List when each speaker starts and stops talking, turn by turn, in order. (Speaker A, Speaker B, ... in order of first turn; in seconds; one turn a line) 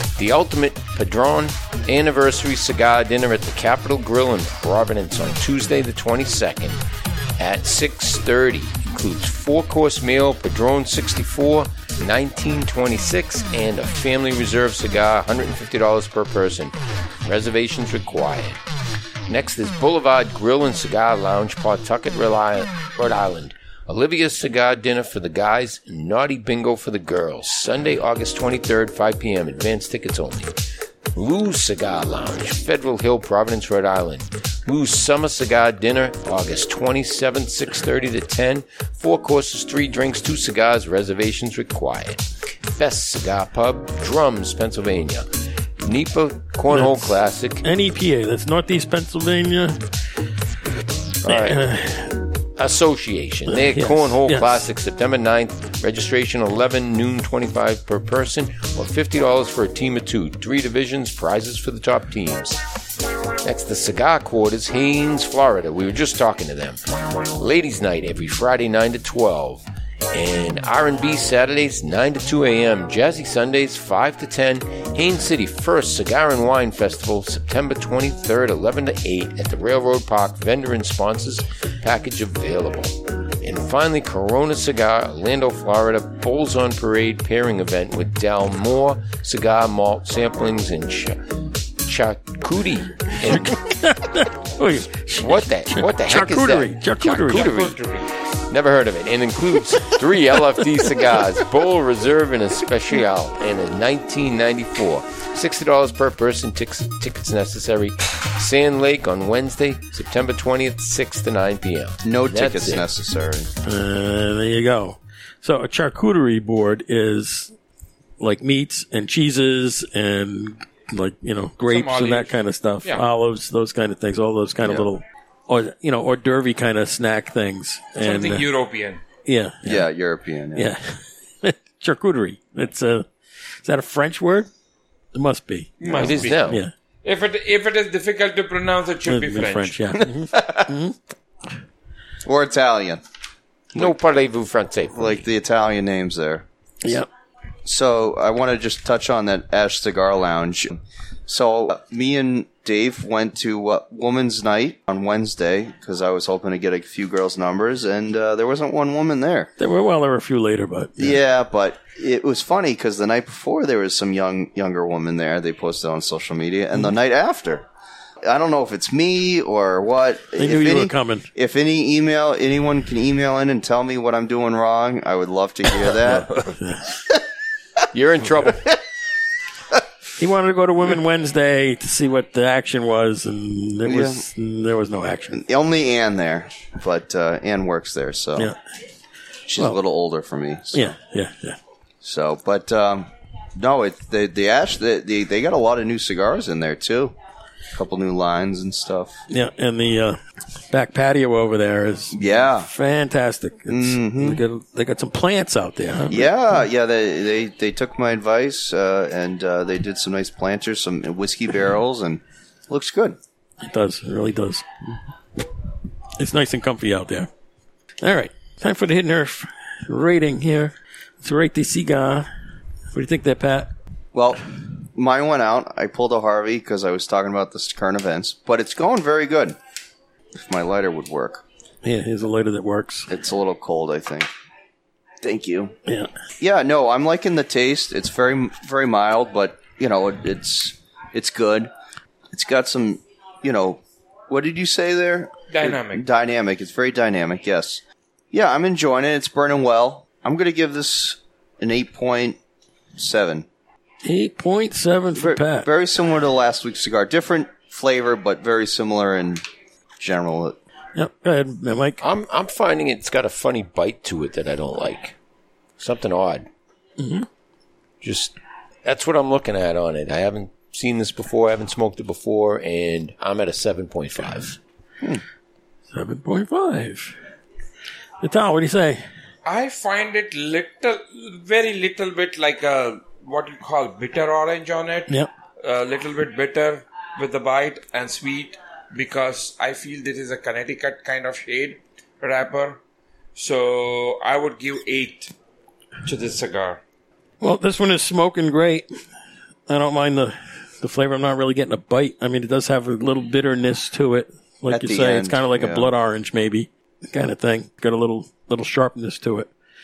Speaker A: 0.2-6.8
Speaker A: 7.4-18.6
Speaker A: 19.3-30.5
Speaker A: 31.1-45.3
Speaker A: 45.8-47.6
Speaker B: 46.7-49.8
Speaker A: 51.3-51.6
Speaker B: 51.3-52.2
Speaker A: 52.6-62.6
Speaker B: 53.5-54.6
Speaker A: 63.4-66.8
Speaker A: 67.4-91.2
Speaker A: 91.8-93.6
Speaker B: 93.3-97.5
Speaker A: 95.2-97.8
Speaker C: 97.3-98.1
Speaker A: 98.5-112.8
Speaker D: 112.0-113.5
Speaker B: 113.7-117.5
Speaker B: 118.2-128.5
Speaker C: 121.7-123.1
Speaker C: 128.0-129.0
Speaker B: 129.2-129.9
Speaker D: 129.7-130.7
Speaker B: 130.6-133.1
Speaker B: 133.6-134.5
Speaker B: 135.1-136.7
Speaker C: 135.8-139.8
Speaker A: 135.9-136.6
Speaker B: 139.1-141.0
Speaker D: 140.0-140.8
Speaker D: 142.2-143.0
Speaker A: 143.8-145.2
Speaker D: 144.9-146.5
Speaker D: 147.7-159.5
Speaker B: 159.6-161.2
Speaker D: 161.0-167.7
Speaker D: 168.2-176.4
Speaker B: 170.4-171.3
Speaker B: 176.4-176.9
Speaker A: 177.9-178.8
Speaker B: 180.2-185.4
Speaker D: 183.8-184.2
Speaker D: 185.3-188.5
Speaker D: 189.5-190.9
Speaker B: 190.7-191.6
Speaker D: 192.0-197.2
Speaker D: 197.7-199.2
Speaker B: 199.3-200.2
Speaker B: 200.7-206.3
Speaker D: 202.1-202.7
Speaker D: 203.7-204.4
Speaker D: 206.1-213.2
Speaker B: 213.6-214.6
Speaker B: 216.2-217.3
Speaker B: 218.0-222.3
Speaker B: 222.9-223.7
Speaker D: 224.1-224.4
Speaker D: 224.9-229.6
Speaker D: 230.3-231.4
Speaker B: 231.8-233.1
Speaker D: 233.1-234.3
Speaker D: 235.2-235.7
Speaker D: 236.4-241.7
Speaker D: 242.3-252.4
Speaker C: 245.5-246.1
Speaker D: 252.9-253.5
Speaker B: 254.1-255.7
Speaker D: 255.1-259.4
Speaker D: 260.0-260.6
Speaker B: 260.9-262.0
Speaker A: 262.0-265.1
Speaker A: 265.8-266.5
Speaker B: 267.0-267.3
Speaker A: 268.0-274.6
Speaker B: 275.9-277.2
Speaker B: 278.2-279.0
Speaker C: 279.4-292.8
Speaker C: 293.4-295.3
Speaker C: 296.0-296.8
Speaker B: 297.4-298.9
Speaker B: 299.7-309.5
Speaker D: 304.7-305.9